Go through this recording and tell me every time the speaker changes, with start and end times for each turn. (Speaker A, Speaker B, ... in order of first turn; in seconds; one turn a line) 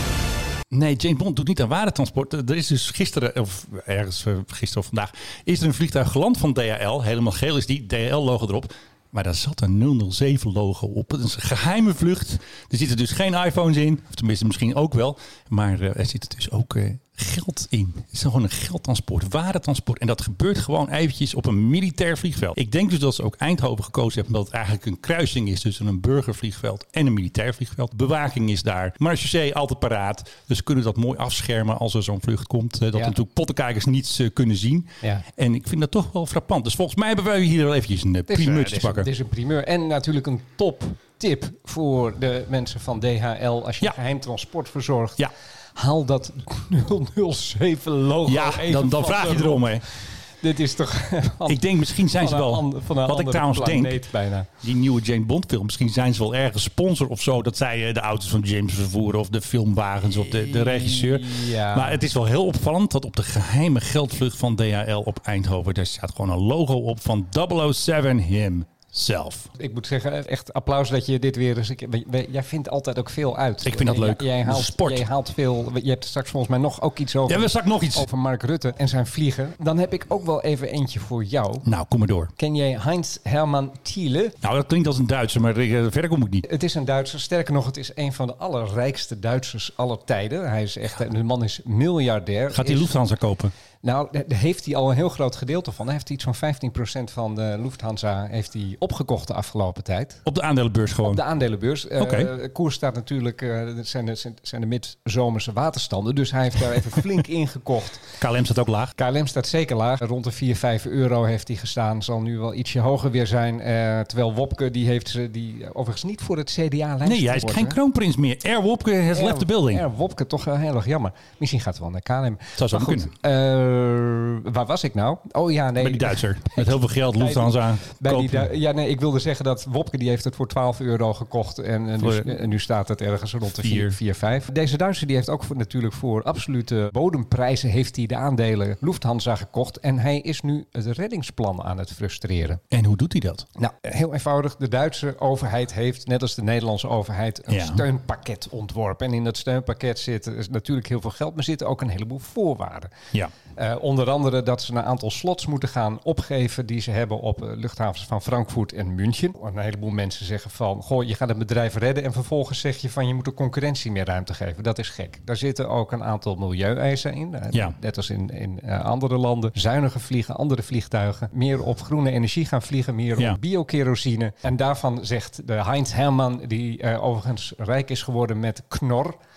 Speaker A: 0.7-39.1
Speaker B: 38.3-54.5
Speaker A: 48.2-49.9
Speaker A: 51.5-54.0
Speaker A: 54.6-69.5
Speaker B: 60.5-62.0
Speaker B: 69.6-81.7
Speaker A: 73.6-75.0
Speaker A: 77.2-78.1
Speaker A: 81.6-82.3
Speaker B: 82.4-84.4
Speaker A: 84.4-86.5
Speaker B: 86.5-93.0
Speaker A: 92.5-93.5
Speaker B: 93.8-100.2
Speaker A: 100.2-101.2
Speaker B: 101.0-108.1
Speaker A: 102.0-102.3
Speaker A: 108.2-108.9
Speaker B: 109.0-117.8
Speaker A: 117.0-119.8
Speaker B: 119.1-142.6
Speaker A: 122.6-123.1
Speaker A: 125.8-128.5
Speaker A: 132.0-132.3
Speaker A: 133.6-134.0
Speaker A: 142.7-143.5
Speaker B: 143.6-152.9
Speaker A: 147.5-147.8
Speaker B: 153.6-179.2